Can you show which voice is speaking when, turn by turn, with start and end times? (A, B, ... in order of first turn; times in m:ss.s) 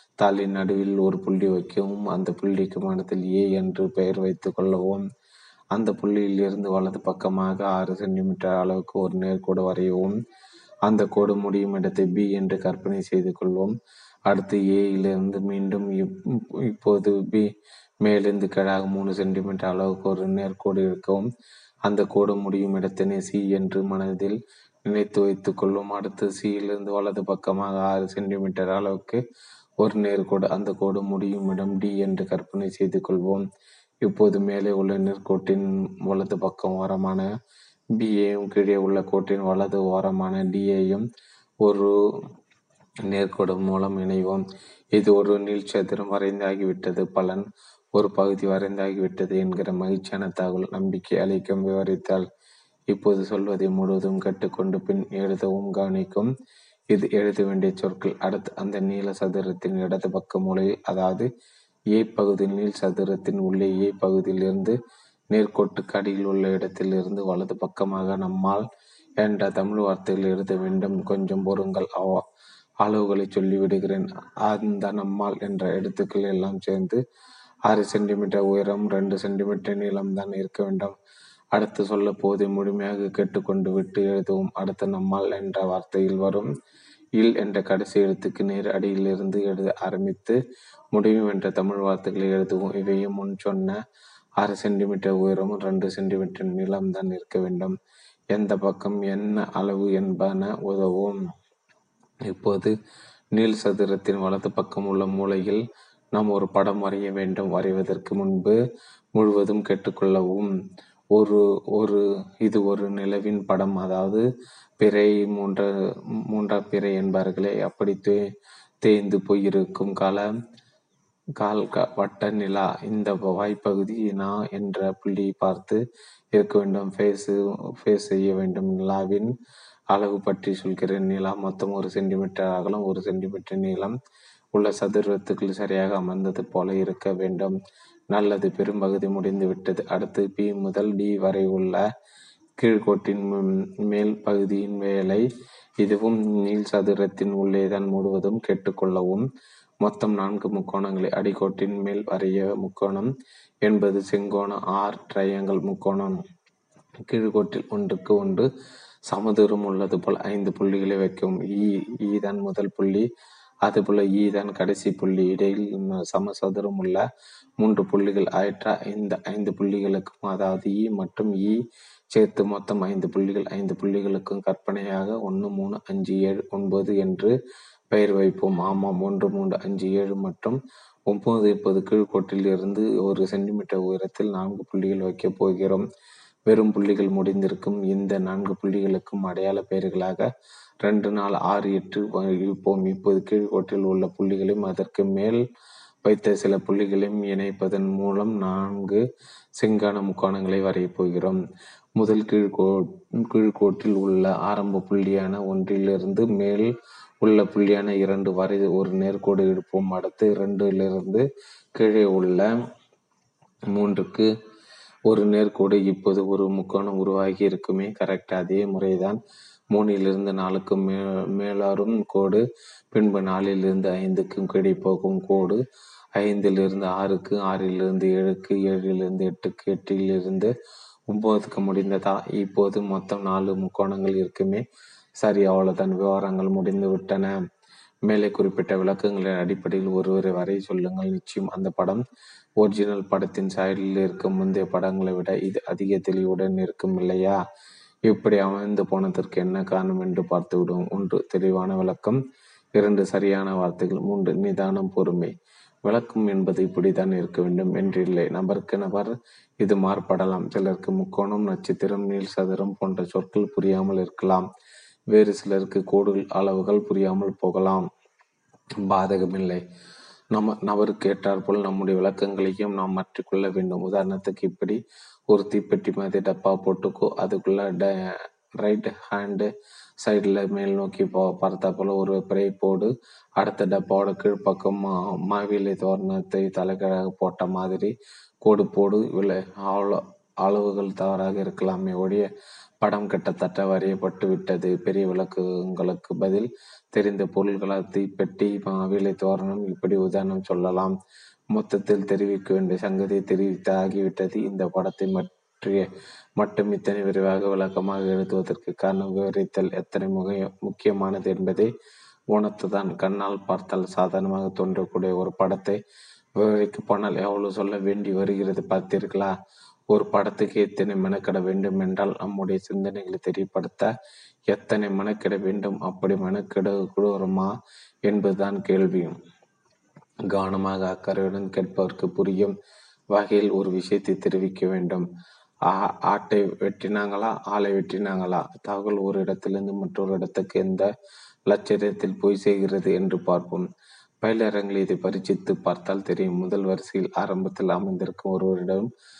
0:00.2-0:05.0 A
0:05.7-0:10.2 A
0:10.8-0:13.7 A
0:14.3-0:17.5 A
0:18.0-0:21.3 A
0:21.8-0:29.2 A
0:29.8-0:33.4 A
0:34.0-0:37.3 A
0:38.0-0:41.0 A
0:41.6-0:41.9 A
0:43.1-0:44.4 A
0:45.0-0:47.4 A
0:48.0-0:52.2 A
0:52.9-0:56.3 A
0:56.9-1:01.3 A
1:01.9-1:04.7 A
1:05.3-1:08.6 A
1:09.2-1:12.2 A
1:12.8-1:17.0 A
1:17.7-1:20.9 A
1:21.5-1:26.5 A
1:27.2-1:30.4 A
1:30.9-1:33.8 A
1:34.4-1:37.7 A
1:38.3-1:41.2 A
1:42.3-1:42.7 A
1:43.3-1:45.6 A
1:46.1-1:48.6 A
1:49.2-1:50.5 A
1:51.1-1:54.2 A
1:54.8-1:55.7 A
1:56.3-1:58.3 A
1:58.8-2:00.3 A
2:01.4-2:05.8 A
2:06.3-2:09.3 A
2:09.9-2:13.9 A
2:14.5-2:17.6 A
2:18.1-2:21.8 A
2:22.6-2:25.2 A
2:25.8-2:29.2 A
2:29.8-2:33.1 A
2:33.6-2:36.2 A
2:37.1-2:38.5 A
2:39.1-2:43.0 A
2:43.6-2:47.0 A
2:47.6-2:51.6 A
2:52.1-2:57.3 A
2:57.9-3:05.8 A
3:06.5-3:10.3 A
3:10.8-3:15.4 A
3:16.0-3:19.0 A
3:19.6-3:21.4 A
3:22.0-3:26.7 A
3:27.2-3:32.5 A
3:33.7-3:34.3 A
3:35.1-3:39.2 A
3:39.7-3:45.6 A
3:46.2-3:50.5 A
3:51.1-3:54.6 A
3:55.2-3:57.4 A
3:58.1-4:02.0 A
4:02.6-4:07.4 A
4:08.1-4:12.2 A
4:12.8-4:15.3 A
4:15.8-4:24.5 A
4:25.1-4:27.9 A
4:28.8-4:29.6 A
4:30.3-4:39.5 A
4:40.0-4:52.3 A
4:52.8-5:00.9 A
5:01.5-5:11.7 A
5:12.3-5:15.8 A
5:16.4-5:19.3 A
5:19.9-5:23.9 A
5:24.5-5:27.5 A
5:28.1-5:29.1 A
5:30.3-5:32.5 A
5:33.1-5:35.1 A
5:35.7-5:40.9 A
5:41.5-5:43.7 A
5:44.2-5:48.9 A